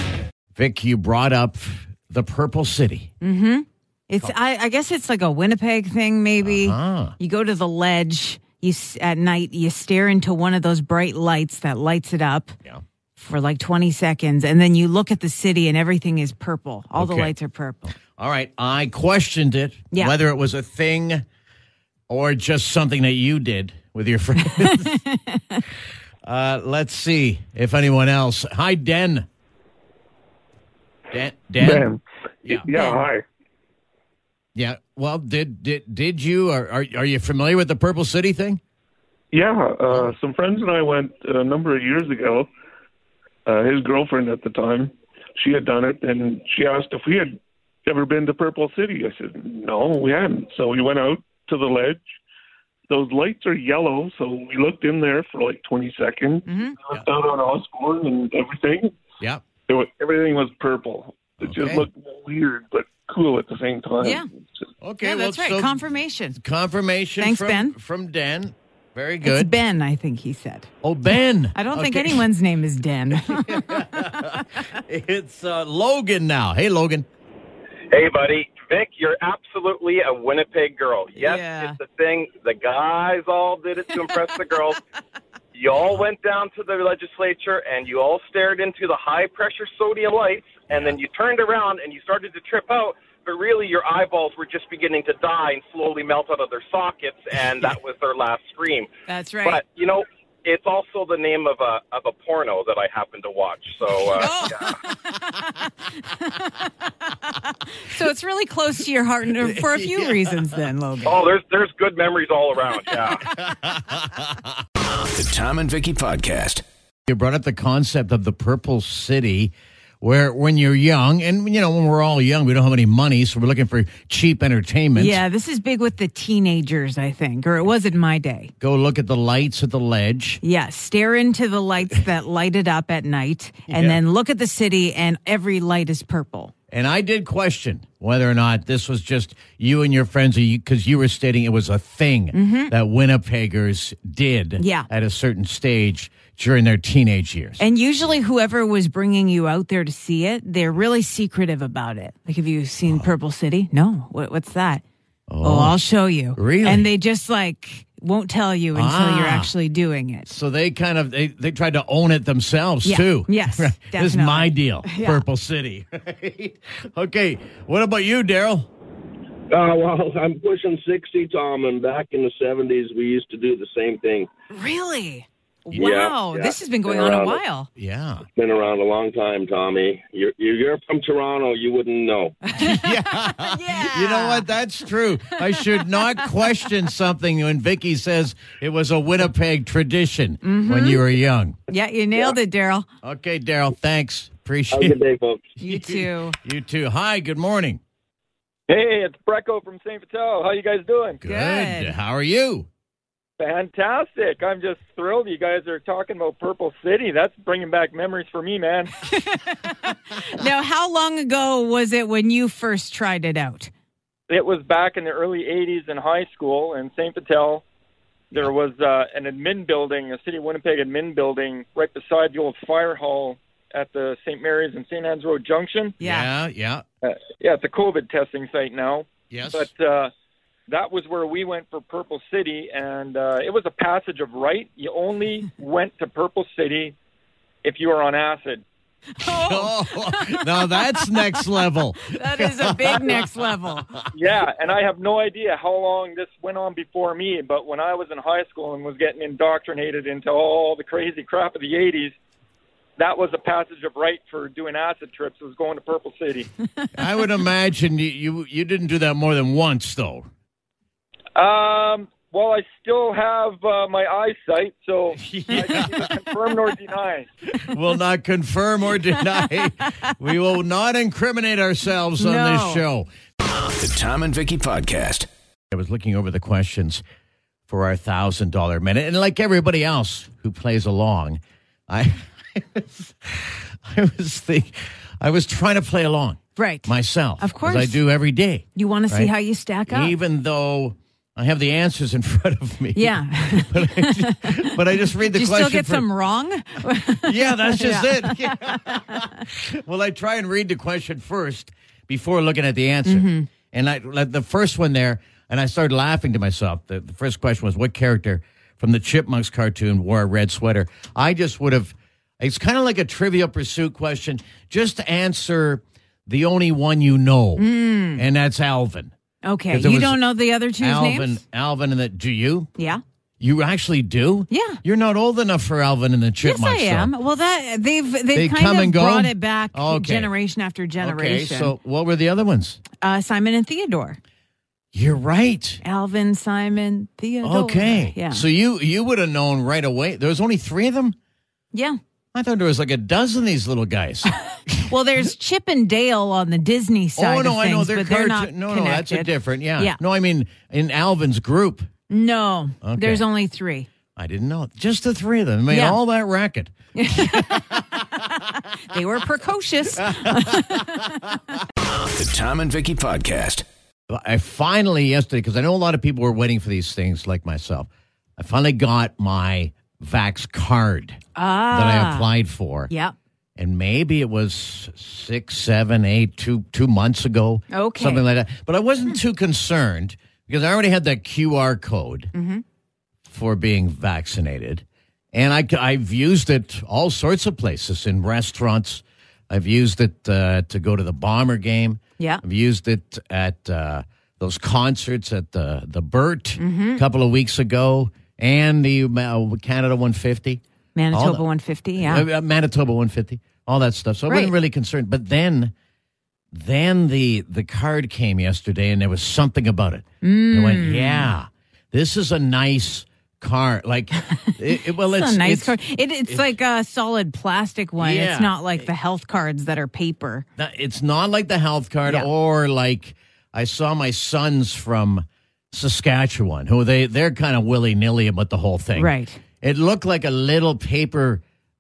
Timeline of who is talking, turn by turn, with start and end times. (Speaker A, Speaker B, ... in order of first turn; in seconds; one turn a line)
Speaker A: 0.5-3.1
Speaker B: 3.2-12.6
Speaker A: 6.4-7.2
Speaker B: 13.2-17.9
Speaker A: 16.9-17.3
Speaker A: 17.9-21.2
Speaker A: 22.1-25.0
Speaker B: 24.5-25.6
Speaker A: 26.2-29.2
Speaker A: 31.1-31.9
Speaker C: 31.6-33.2
Speaker B: 32.7-33.0
Speaker A: 34.5-38.6
Speaker C: 39.3-42.5
Speaker A: 39.9-40.1
Speaker C: 43.5-52.0
Speaker C: 52.9-58.9
Speaker B: 56.5-56.8
Speaker C: 59.7-64.7
Speaker A: 61.4-61.9
Speaker B: 64.0-64.3
Speaker A: 64.8-65.8
Speaker B: 65.0-66.4
Speaker A: 66.3-69.5
Speaker B: 67.2-67.7
Speaker B: 69.2-70.7
Speaker A: 70.8-72.2
Speaker B: 71.5-74.4
Speaker A: 73.2-77.0
Speaker D: 77.9-84.8
Speaker B: 81.2-81.8
Speaker D: 85.5-98.9
Speaker A: 90.7-91.0
Speaker B: 99.1-99.6
Speaker D: 99.4-104.7
Speaker B: 104.2-111.3
Speaker A: 109.5-110.4
Speaker D: 111.0-113.3
Speaker A: 113.3-114.5
Speaker E: 115.0-116.6
Speaker A: 117.1-125.2
Speaker B: 124.9-128.5
Speaker A: 128.6-130.4
Speaker B: 130.4-136.5
Speaker A: 133.7-134.0
Speaker A: 136.7-147.6
Speaker B: 142.3-142.7
Speaker B: 144.6-144.9
Speaker B: 147.6-154.8
Speaker A: 152.8-153.1
Speaker A: 155.3-155.8
Speaker B: 155.4-160.3
Speaker A: 156.3-156.9
Speaker A: 158.7-159.5
Speaker A: 160.2-168.7
Speaker B: 162.8-165.2
Speaker F: 169.5-174.3
Speaker B: 174.5-177.7
Speaker F: 175.7-177.4
Speaker A: 177.8-178.2
Speaker F: 178.3-182.3
Speaker B: 182.5-184.5
Speaker A: 182.6-191.6
Speaker B: 185.3-186.2
Speaker B: 190.4-191.0
Speaker B: 191.7-192.9
Speaker A: 193.0-195.0
Speaker F: 194.7-195.4
Speaker B: 195.6-196.3
Speaker A: 195.6-197.8
Speaker G: 198.7-201.2
Speaker A: 201.2-202.7
Speaker B: 201.2-201.9
Speaker G: 203.4-208.9
Speaker B: 209.1-213.7
Speaker G: 214.3-217.6
Speaker G: 218.3-226.0
Speaker B: 226.0-226.3
Speaker A: 226.0-226.8
Speaker G: 227.0-230.1
Speaker A: 229.3-229.7
Speaker G: 230.7-236.9
Speaker G: 237.6-238.6
Speaker B: 239.2-243.9
Speaker A: 239.2-243.3
Speaker G: 244.1-252.1
Speaker G: 253.0-256.5
Speaker A: 256.9-260.3
Speaker G: 261.4-267.3
Speaker A: 265.2-266.2
Speaker A: 267.6-273.1
Speaker B: 272.2-272.8
Speaker E: 273.4-275.3
Speaker A: 275.7-277.0
Speaker A: 277.7-289.3
Speaker B: 286.6-288.0
Speaker B: 288.7-290.1
Speaker A: 289.9-296.1
Speaker B: 292.9-294.7
Speaker B: 295.2-299.1
Speaker A: 297.2-319.1
Speaker B: 303.0-303.5
Speaker B: 317.6-318.2
Speaker B: 319.4-321.4
Speaker A: 319.7-320.2
Speaker A: 320.8-322.7
Speaker B: 322.8-323.0
Speaker A: 323.4-327.1
Speaker B: 324.5-324.8
Speaker B: 326.4-331.7
Speaker A: 328.3-330.3
Speaker A: 331.0-332.8
Speaker B: 333.0-334.2
Speaker A: 334.9-335.8
Speaker B: 335.8-338.4
Speaker A: 337.4-341.1
Speaker A: 342.3-344.8
Speaker B: 344.7-350.0
Speaker A: 347.1-351.9
Speaker B: 352.1-353.9
Speaker A: 352.8-353.2
Speaker A: 354.1-357.7
Speaker B: 355.7-356.0
Speaker B: 356.9-358.2
Speaker B: 358.9-361.2
Speaker A: 360.0-360.8
Speaker E: 361.8-363.6
Speaker A: 364.1-372.9
Speaker B: 371.4-372.3
Speaker B: 372.9-373.1
Speaker A: 373.6-382.3
Speaker B: 377.7-378.2
Speaker B: 382.3-382.6
Speaker A: 383.3-401.4
Speaker B: 392.2-392.4
Speaker B: 396.6-397.0
Speaker B: 400.9-402.2
Speaker A: 401.9-405.7
Speaker B: 404.3-404.5
Speaker A: 406.5-415.8
Speaker B: 410.2-411.3
Speaker B: 415.0-420.4
Speaker A: 418.0-418.9
Speaker A: 420.6-431.4
Speaker B: 428.9-429.4